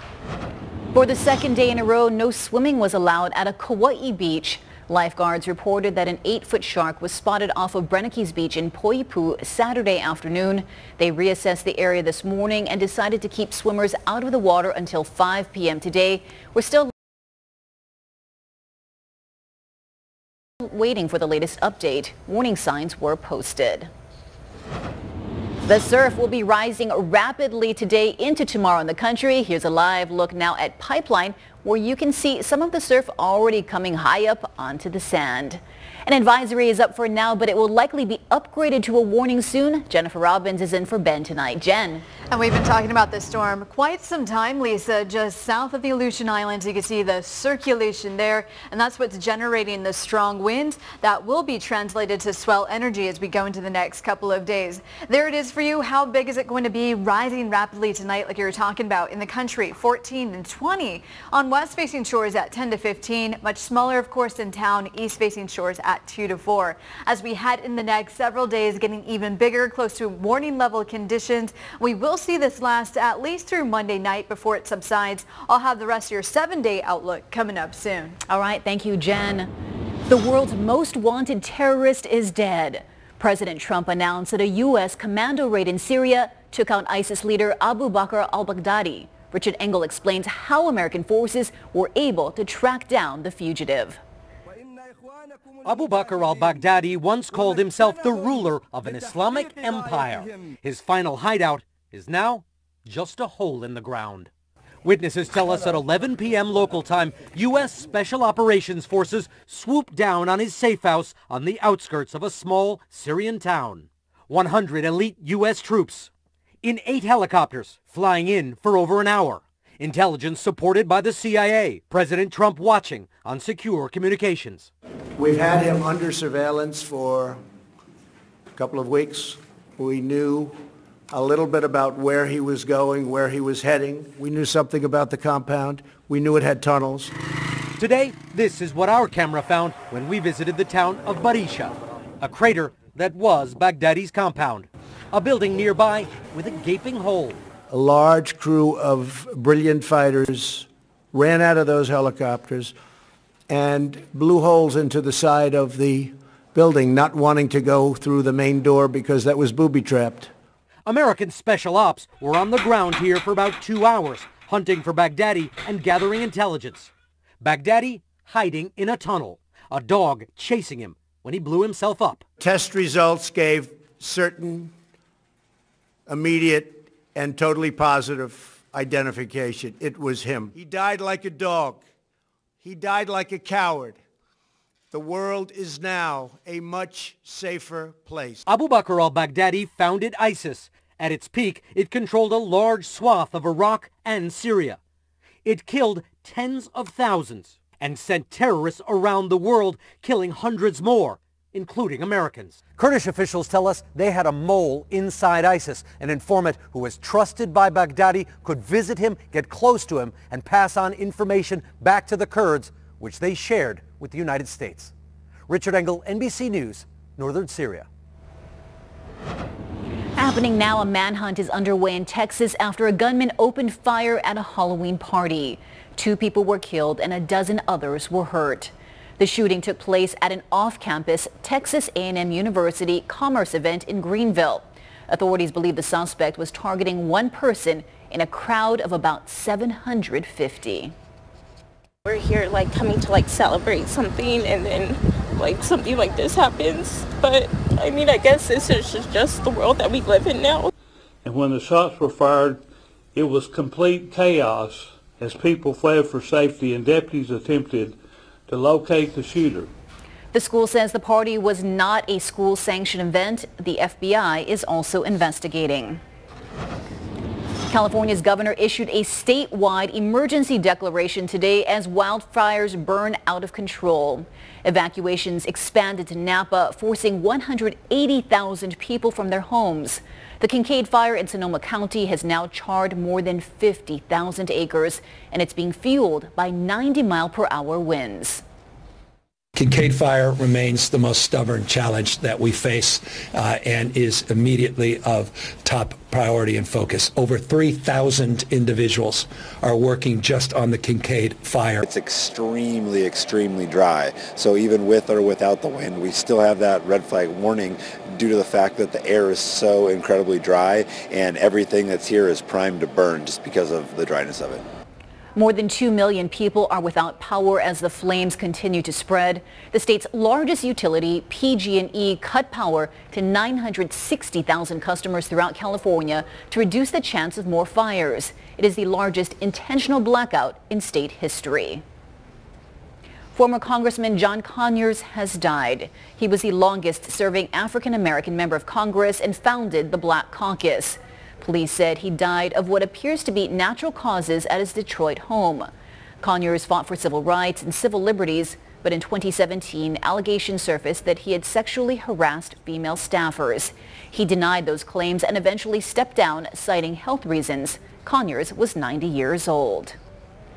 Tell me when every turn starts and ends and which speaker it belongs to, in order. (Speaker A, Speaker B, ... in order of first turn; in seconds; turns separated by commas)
Speaker A: 0.9-16.9, Speaker A: 20.6-23.9, Speaker A: 25.6-42.1, Speaker B: 42.3-78.2, Speaker A: 78.2-79.5, Speaker A: 80.1-94.0, Speaker C: 95.6-104.3, Speaker C: 104.8-116.1, Speaker C: 116.6-124.7, Speaker D: 125.2-127.4, Speaker D: 128.6-130.6, Speaker D: 131.1-137.1, Speaker C: 137.8-147.4, Speaker D: 147.7-152.7, Speaker D: 153.5-160.3, Speaker C: 160.8-166.9, Speaker C: 167.4-172.2, Speaker D: 172.4-174.7, Speaker D: 176.1-181.8, Speaker D: 182.6-184.0, Speaker D: 184.9-188.4, Speaker C: 188.5-194.8, Speaker C: 195.4-214.9, Speaker C: 215.5-217.9, Speaker A: 220.2-240.9, Speaker E: 242.1-250.7, Speaker F: 251.2-252.6, Speaker F: 253.1-258.0, Speaker F: 258.5-259.7, Speaker A: 260.3-266.0, Speaker A: 267.7-288.4, Speaker G: 289.5-301.8, Speaker H: 301.8-314.6, Speaker A: 315.4-331.8, Speaker A: 333.4-345.7, Speaker A: 346.2-360.0